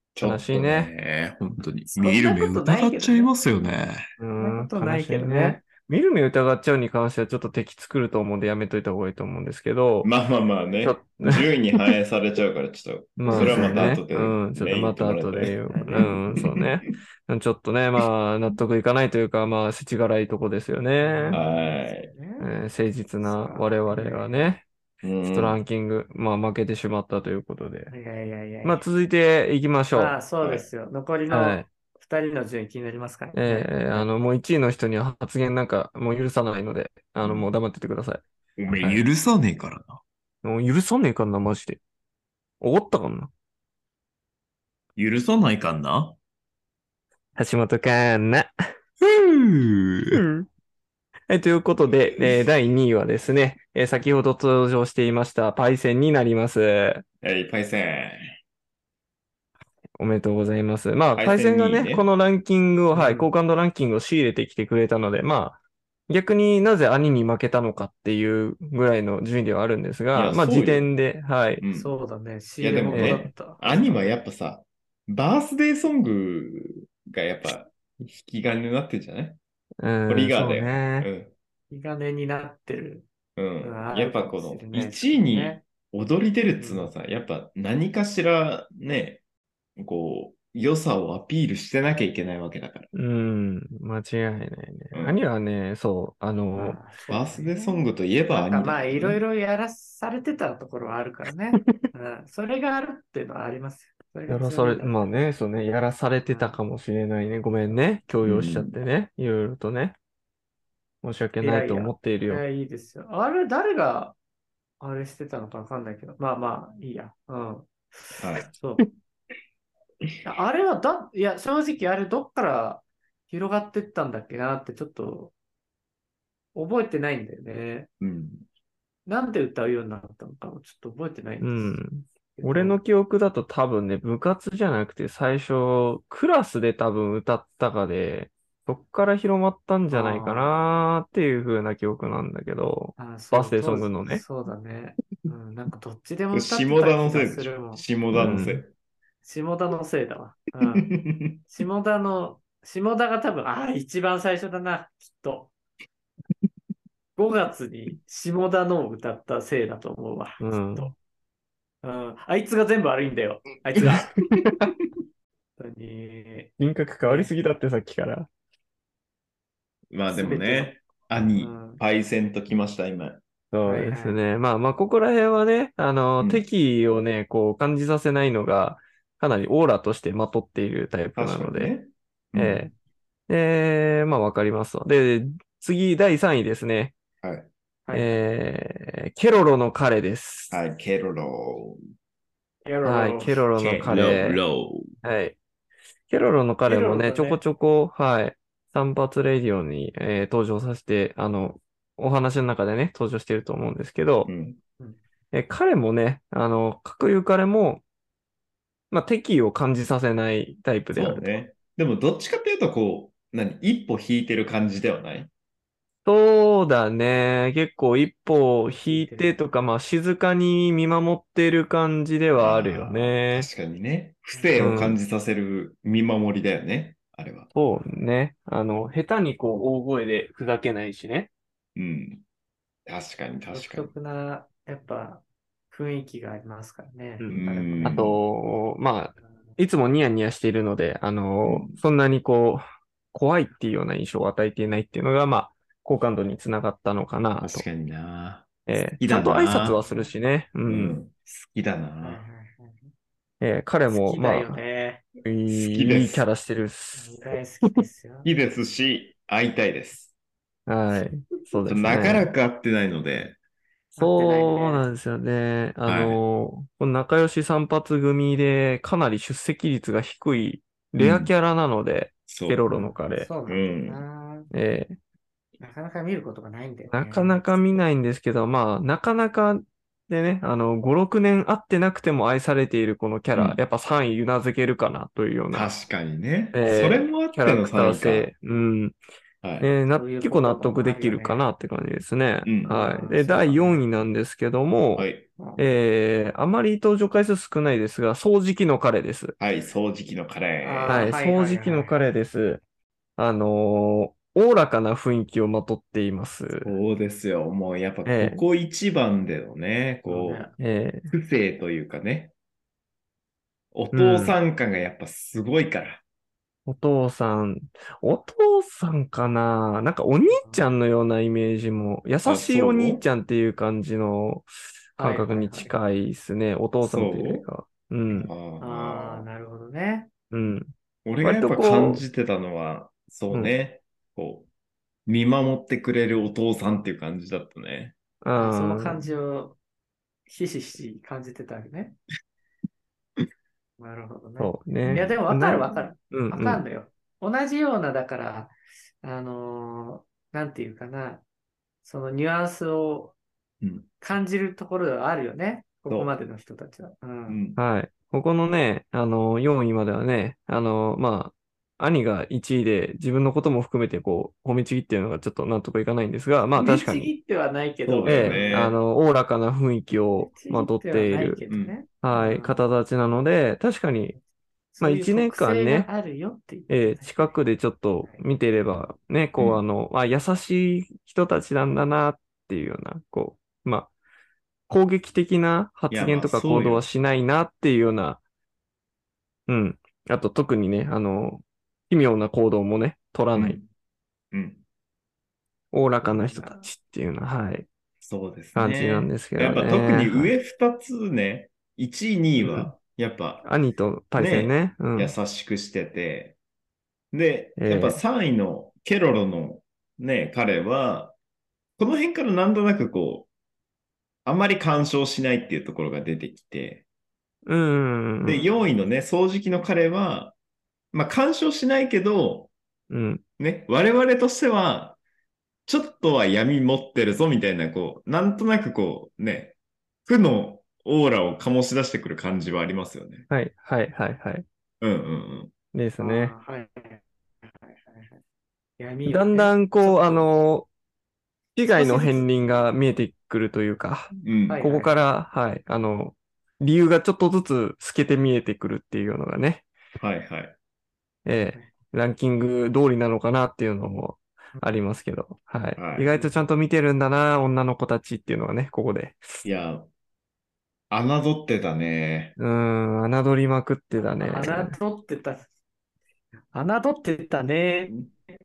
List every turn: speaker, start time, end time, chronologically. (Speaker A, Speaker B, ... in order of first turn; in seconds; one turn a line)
Speaker A: 0.1-4.1
Speaker B: 0.2-0.9
Speaker C: 2.0-3.3
Speaker B: 4.2-10.1
Speaker C: 4.4-5.6
Speaker A: 10.0-16.7
Speaker B: 10.8-11.9
Speaker B: 13.2-21.4
Speaker C: 13.3-13.9
Speaker C: 15.7-16.1
Speaker C: 21.0-22.5
Speaker A: 21.3-22.1
Speaker B: 22.4-24.6
Speaker C: 23.2-24.5
Speaker A: 25.0-25.6
Speaker B: 25.2-27.9
Speaker C: 27.9-28.8
Speaker B: 28.6-30.2
Speaker C: 29.9-34.1
Speaker A: 30.4-30.7
Speaker B: 31.3-31.6
Speaker B: 33.3-38.2
Speaker A: 37.2-37.5
Speaker A: 38.6-40.0
Speaker B: 40.4-41.8
Speaker B: 42.6-43.3
Speaker A: 45.0-46.2
Speaker B: 47.4-48.5
Speaker A: 49.0-50.2
Speaker B: 50.1-50.5
Speaker B: 51.3-57.0
Speaker A: 52.2-52.4
Speaker A: 57.2-58.3
Speaker B: 60.0-71.6
Speaker A: 61.2-62.1
Speaker C: 62.9-63.3
Speaker A: 70.1-70.9
Speaker A: 71.6-71.9
Speaker C: 71.7-74.0
Speaker A: 72.6-79.4
Speaker B: 72.9-73.3
Speaker B: 79.8-81.1
Speaker A: 80.1-81.3
Speaker C: 81.7-83.1
Speaker A: 83.4-89.2
Speaker C: 83.6-85.6
Speaker C: 86.6-86.9
Speaker A: 89.8-92.9
Speaker B: 92.9-96.8
Speaker A: 94.9-95.2
Speaker C: 96.5-105.0
Speaker A: 97.1-99.2
Speaker B: 104.3-110.0
Speaker C: 106.3-106.6
Speaker A: 108.2-108.8
Speaker B: 111.0-112.4
Speaker C: 111.4-114.2
Speaker C: 114.8-118.8
Speaker A: 118.2-118.5
Speaker C: 120.2-125.3
Speaker C: 126.5-127.9
Speaker A: 128.0-128.4
Speaker C: 129.1-131.8
Speaker B: 131.4-144.2
Speaker C: 132.4-132.8
Speaker C: 139.9-140.5
Speaker C: 143.0-147.9
Speaker A: 146.3-148.7
Speaker B: 148.1-148.6
Speaker C: 149.2-150.9
Speaker A: 150.7-151.4
Speaker C: 151.5-155.5
Speaker C: 157.2-160.9
Speaker B: 160.4-160.9
Speaker C: 161.8-164.1
Speaker A: 163.8-164.5
Speaker B: 164.4-164.7
Speaker C: 165.6-166.5
Speaker B: 166.6-168.3
Speaker C: 167.1-167.3
Speaker A: 169.9-173.8
Speaker C: 170.1-170.7
Speaker C: 171.4-171.8
Speaker C: 173.7-174.2
Speaker B: 173.7-181.7
Speaker A: 181.2-182.7
Speaker B: 182.3-182.7
Speaker B: 183.3-186.9
Speaker A: 187.2-187.5
Speaker C: 187.9-188.2
Speaker B: 187.9-190.6
Speaker A: 190.5-191.8
Speaker C: 192.7-193.4
Speaker B: 192.8-194.4
Speaker A: 193.6-194.9
Speaker B: 195.0-195.4
Speaker B: 196.1-204.3
Speaker C: 196.7-197.4
Speaker A: 204.3-204.6
Speaker B: 205.3-207.8
Speaker B: 208.9-211.3
Speaker A: 210.9-215.3
Speaker B: 216.1-223.5
Speaker C: 218.7-219.3
Speaker A: 222.4-227.5
Speaker C: 224.3-224.7
Speaker B: 224.6-225.0
Speaker B: 227.6-231.3
Speaker A: 231.8-232.2
Speaker A: 232.9-233.9
Speaker C: 233.5-238.1
Speaker B: 237.2-247.7
Speaker A: 237.3-238.2
Speaker A: 241.4-241.8
Speaker A: 247.4-248.5
Speaker B: 248.7-251.0
Speaker A: 249.0-249.8
Speaker A: 250.7-252.2
Speaker C: 252.0-252.9
Speaker B: 253.4-254.6
Speaker C: 253.9-255.0
Speaker B: 255.2-257.8
Speaker A: 255.5-256.2
Speaker C: 256.9-258.3
Speaker A: 258.2-260.1
Speaker B: 260.7-262.3
Speaker A: 261.7-263.4
Speaker C: 263.9-264.9
Speaker B: 264.0-273.3
Speaker A: 265.9-266.2
Speaker A: 271.0-271.3
Speaker A: 272.3-272.6
Speaker C: 272.7-274.5
Speaker A: 273.5-274.0
Speaker B: 274.5-275.0
Speaker C: 275.6-277.4
Speaker B: 276.9-285.7
Speaker A: 283.3-283.6
Speaker A: 285.5-288.3
Speaker B: 286.5-289.0
Speaker A: 289.4-289.7
Speaker B: 289.6-299.4
Speaker C: 289.9-291.5
Speaker A: 292.4-292.7
Speaker C: 292.7-293.8
Speaker A: 295.0-295.3
Speaker C: 295.4-295.6
Speaker A: 299.4-301.1
Speaker C: 300.6-301.9
Speaker B: 300.9-302.6
Speaker B: 303.2-306.7
Speaker A: 306.6-310.5
Speaker B: 308.1-308.4
Speaker C: 310.1-310.5
Speaker B: 310.6-311.1
Speaker A: 311.1-312.3
Speaker A: 313.7-316.0
Speaker B: 313.9-314.4
Speaker B: 316.7-328.3
Speaker C: 320.3-320.6
Speaker A: 322.2-323.0
Speaker C: 325.0-325.8
Speaker A: 326.8-327.5
Speaker A: 328.1-329.3
Speaker C: 328.6-330.1
Speaker B: 330.3-332.0
Speaker A: 331.1-334.5
Speaker A: 335.1-337.9
Speaker B: 338.2-339.1
Speaker C: 338.4-339.6
Speaker C: 340.3-342.0
Speaker C: 343.8-351.2
Speaker B: 344.4-346.6
Speaker A: 344.8-345.2
Speaker C: 351.8-353.1
Speaker A: 353.6-353.9
Speaker C: 354.0-357.4
Speaker A: 357.3-357.6
Speaker B: 357.6-367.1
Speaker C: 366.6-368.6
Speaker A: 367.9-368.8
Speaker B: 368.1-371.4
Speaker C: 370.2-372.6
Speaker A: 371.5-371.8
Speaker B: 372.0-374.2
Speaker C: 374.8-377.3
Speaker B: 374.8-375.9
Speaker B: 376.7-383.9
Speaker B: 384.7-388.2
Speaker A: 385.9-386.9
Speaker B: 389.5-393.6
Speaker A: 393.4-393.7
Speaker A: 394.3-394.6
Speaker B: 395.7-397.7
Speaker C: 396.0-396.7
Speaker A: 398.0-403.5
Speaker B: 398.6-400.3
Speaker B: 402.4-402.7
Speaker B: 403.4-405.1
Speaker A: 404.1-406.4
Speaker A: 407.1-411.1
Speaker B: 407.6-408.0
Speaker A: 411.8-413.3
Speaker A: 414.2-416.8
Speaker B: 417.5-418.4
Speaker A: 418.2-420.3
Speaker C: 418.3-418.7
Speaker A: 420.9-422.5
Speaker B: 422.9-423.2
Speaker A: 423.4-425.0
Speaker A: 425.7-429.6
Speaker A: 430.1-433.3
Speaker B: 433.3-434.4
Speaker A: 434.8-435.5
Speaker B: 435.7-436.3
Speaker C: 436.0-438.2
Speaker C: 438.8-440.3
Speaker B: 439.1-440.7
Speaker B: 441.6-449.6
Speaker C: 441.7-442.3
Speaker A: 444.2-444.6
Speaker C: 444.5-444.9
Speaker A: 450.0-450.6
Speaker B: 451.3-459.3
Speaker A: 455.8-456.2
Speaker A: 459.4-459.9
Speaker A: 460.9-462.4
Speaker B: 462.4-464.8
Speaker C: 464.2-465.5
Speaker C: 466.5-468.1